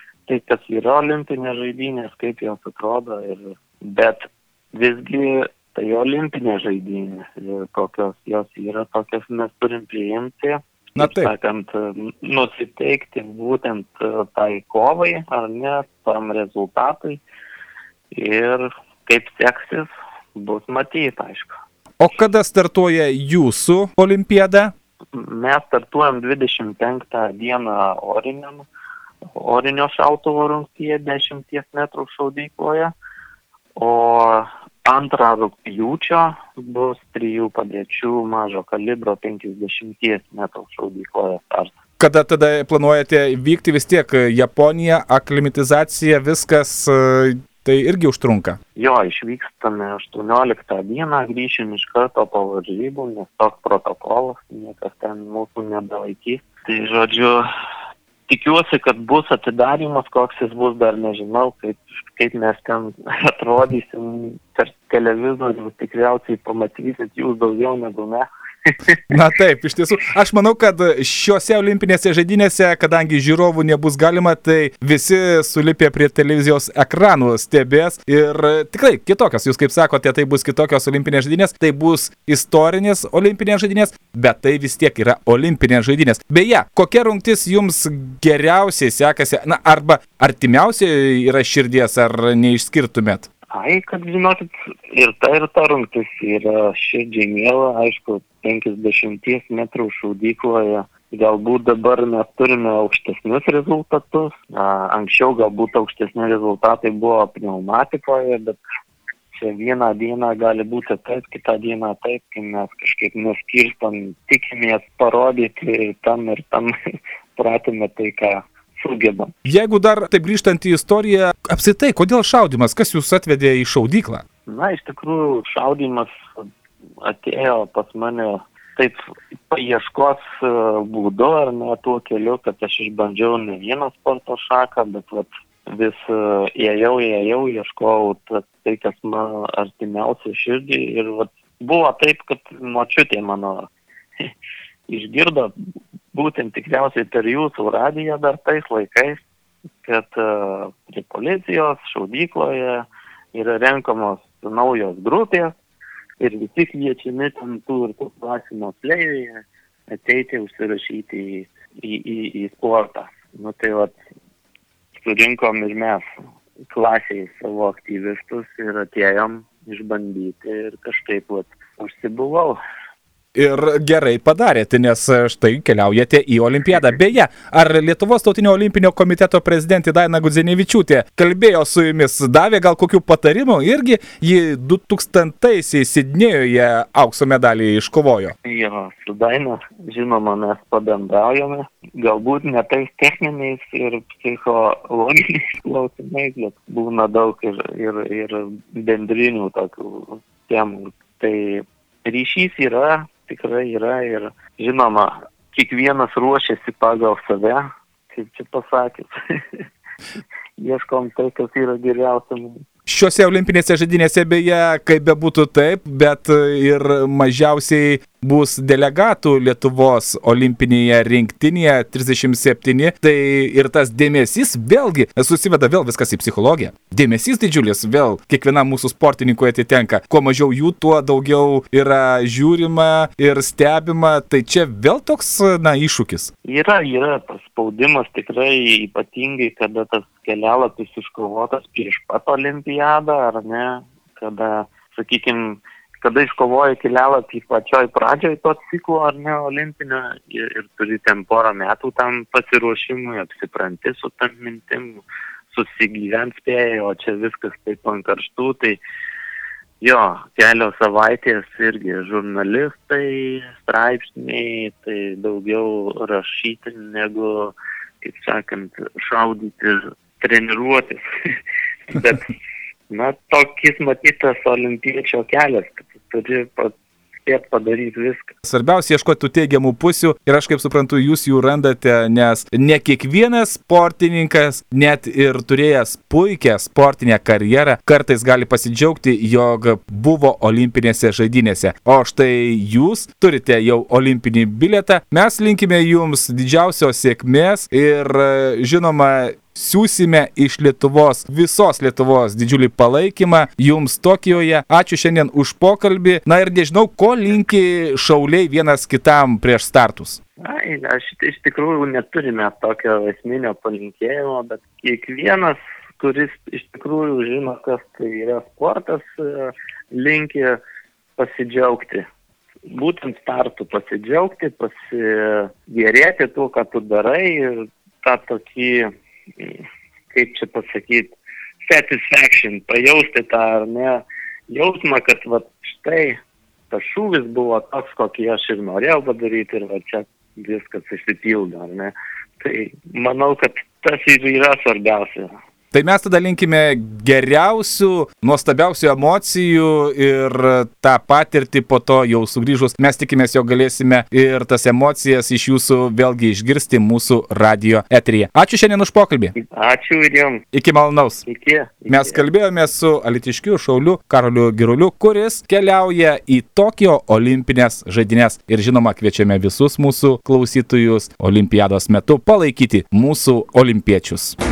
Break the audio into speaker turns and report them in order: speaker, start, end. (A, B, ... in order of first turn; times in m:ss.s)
0:00.3-0:17.2 A
0:11.0-0:11.3 B
0:18.1-0:21.6 A
0:22.0-0:24.7 B
0:25.1-0:28.7 A
0:29.4-0:32.9 A
0:33.8-0:41.7 A
0:42.0-0:48.6 B
0:48.8-0:57.5 A
0:58.3-1:09.0 A
1:09.1-1:33.2 B
1:33.5-1:48.6 A
1:49.3-1:56.7 A
1:57.4-1:59.3 A
1:59.5-2:04.2 B
2:04.5-2:06.4 A
2:07.0-2:23.7 A
2:24.9-2:25.5 A
2:26.1-2:29.2 A
2:29.8-2:35.6 A
2:36.2-2:44.0 A
2:45.0-2:46.0 A
2:46.7-2:52.6 A
2:53.4-3:08.4 B
3:08.4-3:29.6 A
3:30.6-3:32.6 A
3:32.9-3:56.3 B
3:56.4-4:18.8 A
4:19.8-4:31.0 A
4:31.9-4:32.3 A
4:32.9-4:38.3 A
4:38.4-5:10.2 B
5:10.4-5:20.6 A
5:21.2-5:22.1 A
5:22.7-5:28.9 A
5:30.1-5:36.2 A
5:36.7-5:45.3 A
5:45.7-5:59.3 B
5:59.4-6:00.4 A
6:00.5-6:01.2 B
6:01.2-6:02.2 A
6:01.9-6:14.4 B